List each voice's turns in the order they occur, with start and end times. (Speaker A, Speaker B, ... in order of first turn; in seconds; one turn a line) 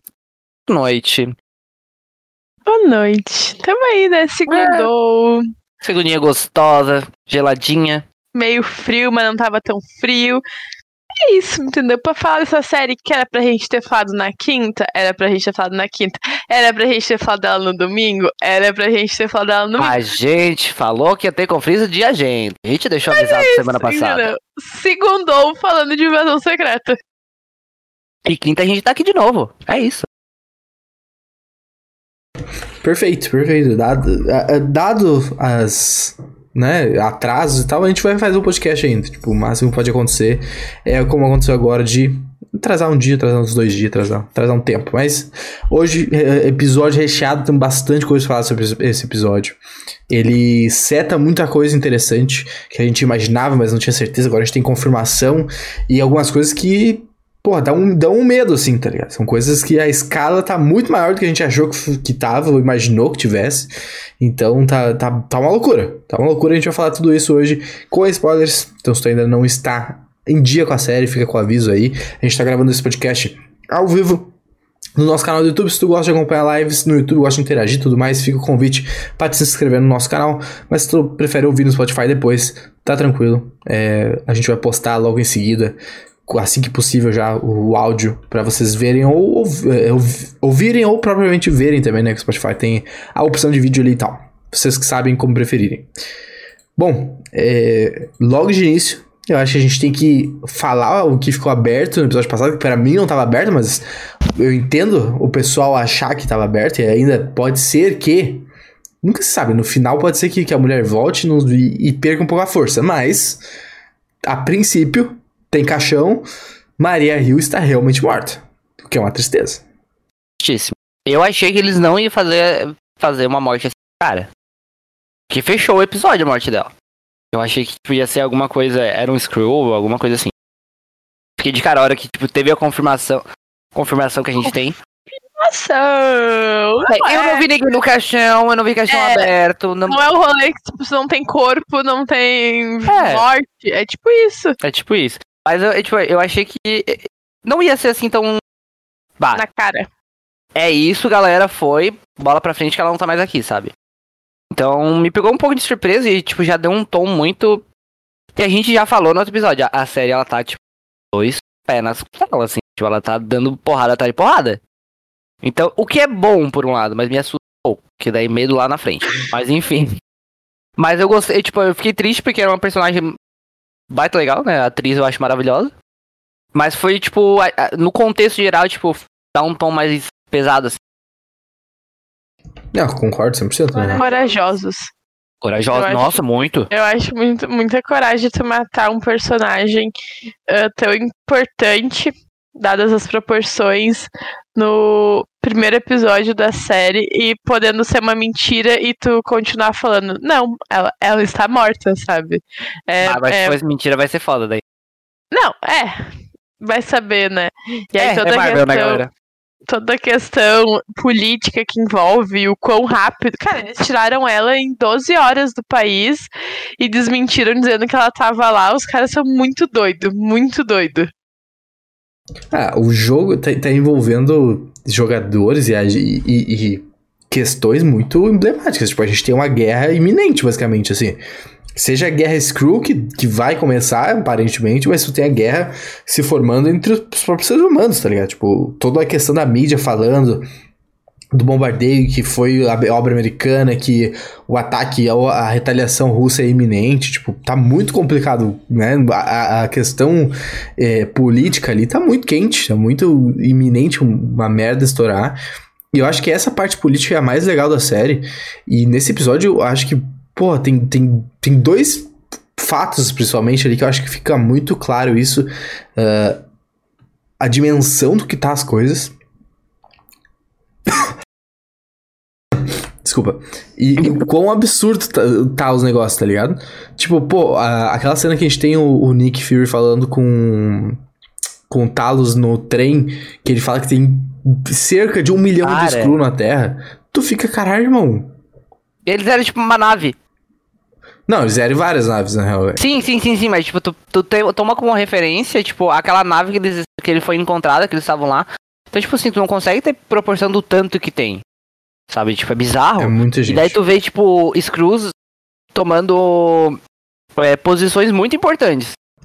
Speaker A: 0.7-1.4
Speaker B: 2.7-5.5
Speaker A: 4.5-4.9
Speaker A: 5.8-8.1
Speaker B: 8.3-10.4
Speaker B: 11.2-20.0
Speaker A: 19.8-24.3
Speaker B: 23.1-27.0
Speaker A: 28.2-30.1
Speaker C: 32.8-74.3
Speaker C: 75.0-95.9
Speaker C: 96.8-103.8
Speaker C: 104.4-108.5
Speaker C: 109.0-113.4
Speaker C: 114.2-116.2
Speaker C: 116.8-119.6
Speaker A: 120.4-124.3
Speaker A: 125.3-126.7
Speaker A: 127.3-130.3
Speaker A: 131.4-133.2
Speaker A: 133.8-134.8
Speaker B: 135.1-137.5
Speaker A: 136.9-140.0
Speaker B: 138.9-139.3
Speaker B: 139.9-144.6
Speaker A: 142.9-143.2
Speaker A: 144.6-148.4
Speaker B: 149.3-149.9
Speaker A: 150.6-153.7
Speaker A: 154.5-157.7
Speaker A: 158.4-160.6
Speaker A: 161.1-164.6
Speaker A: 165.4-170.0
Speaker A: 170.8-173.2
Speaker A: 173.9-175.7
Speaker A: 176.5-180.8
Speaker C: 182.7-184.0
Speaker B: 183.9-184.9
Speaker A: 185.4-186.7
Speaker B: 185.7-186.2
Speaker B: 186.7-189.9
Speaker B: 190.5-203.6
Speaker A: 203.0-204.6
Speaker B: 205.3-206.0
Speaker B: 206.6-209.0
Speaker A: 208.0-209.1
Speaker B: 209.7-221.1
Speaker C: 222.5-231.2
Speaker C: 231.8-240.5
Speaker C: 241.3-255.4
Speaker C: 255.9-266.4
Speaker C: 267.4-269.1
Speaker C: 273.0-281.0
Speaker C: 281.7-288.4
Speaker A: 285.6-286.1
Speaker A: 289.1-290.1
Speaker C: 291.3-292.8
Speaker A: 292.8-301.4
Speaker A: 302.1-305.1
Speaker C: 303.0-303.8
Speaker A: 305.7-306.8
Speaker A: 307.4-308.9